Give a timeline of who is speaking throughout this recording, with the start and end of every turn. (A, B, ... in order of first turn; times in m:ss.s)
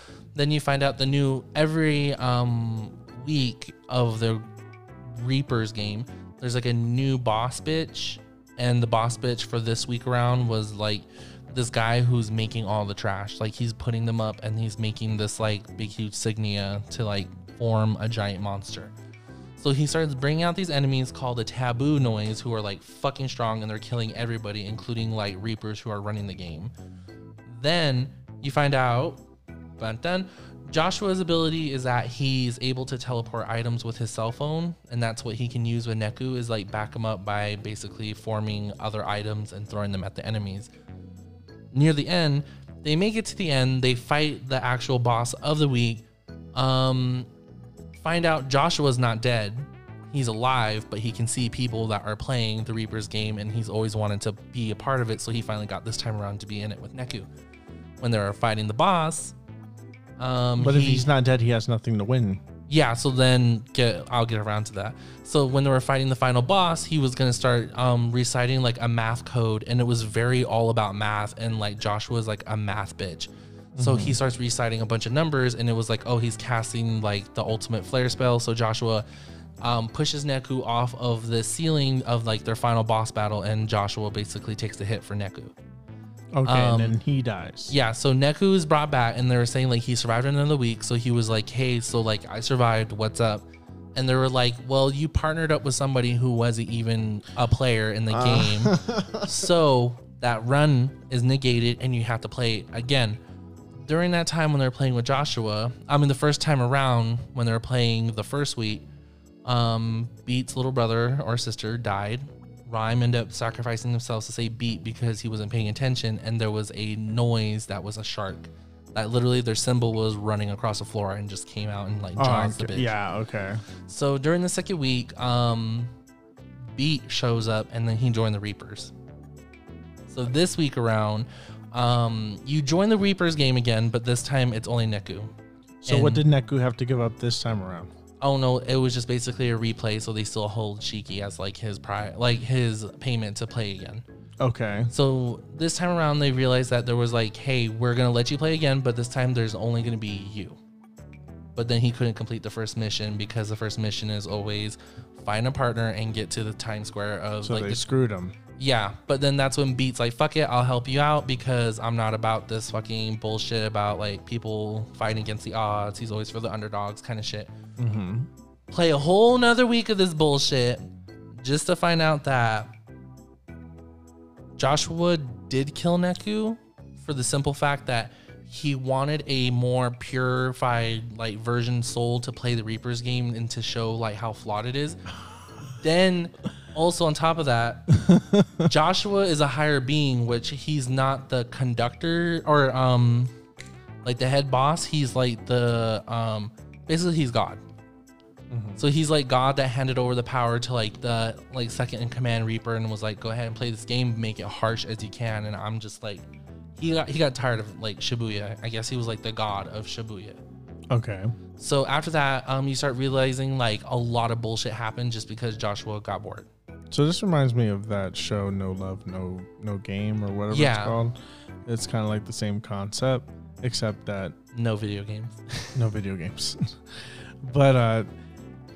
0:00.4-0:04.5 A
0:05.1-0:18.9 A
0:19.6-0:26.7 A
0:27.5-0:29.2 A
0:29.8-0:40.7 A
0:41.7-0:47.3 A
0:48.0-0:57.3 A
0:58.0-0:59.4 A
1:00.2-1:01.1 A
1:00.6-1:02.4 B
1:02.7-1:19.1 A
1:13.8-1:14.2 B
1:19.6-1:25.5 A
1:26.3-1:27.8 B
1:26.4-1:27.0 A
1:27.7-1:43.2 A
1:38.1-1:39.3 B
1:43.8-1:48.8 A
1:49.4-2:02.9 A
2:02.2-2:03.6 B
2:03.9-2:05.9 A
2:06.7-2:08.9 A
2:10.1-2:15.3 A
2:15.8-2:17.9 B
2:15.9-2:16.2 A
2:18.2-2:24.0 A
2:24.4-2:24.9 B
2:24.9-2:30.6 A
2:31.6-2:37.9 A
2:37.4-2:38.4 B
2:38.6-2:47.5 A
2:47.8-2:48.3 B
2:48.7-2:50.8 A
2:51.4-2:52.7 A
2:54.6-3:05.0 A
3:05.7-3:08.0 A
3:08.1-3:08.7 B
3:08.6-3:13.3 A
3:14.0-3:17.6 A
3:18.5-3:18.8 B
3:18.8-3:26.3 A
3:26.8-3:30.4 A
3:30.9-3:31.3 B
3:31.6-3:36.5 A
3:36.9-3:44.4 B
3:40.5-3:41.0 A
3:44.5-3:45.8 A
3:45.8-3:46.8 B
3:47.4-3:48.1 B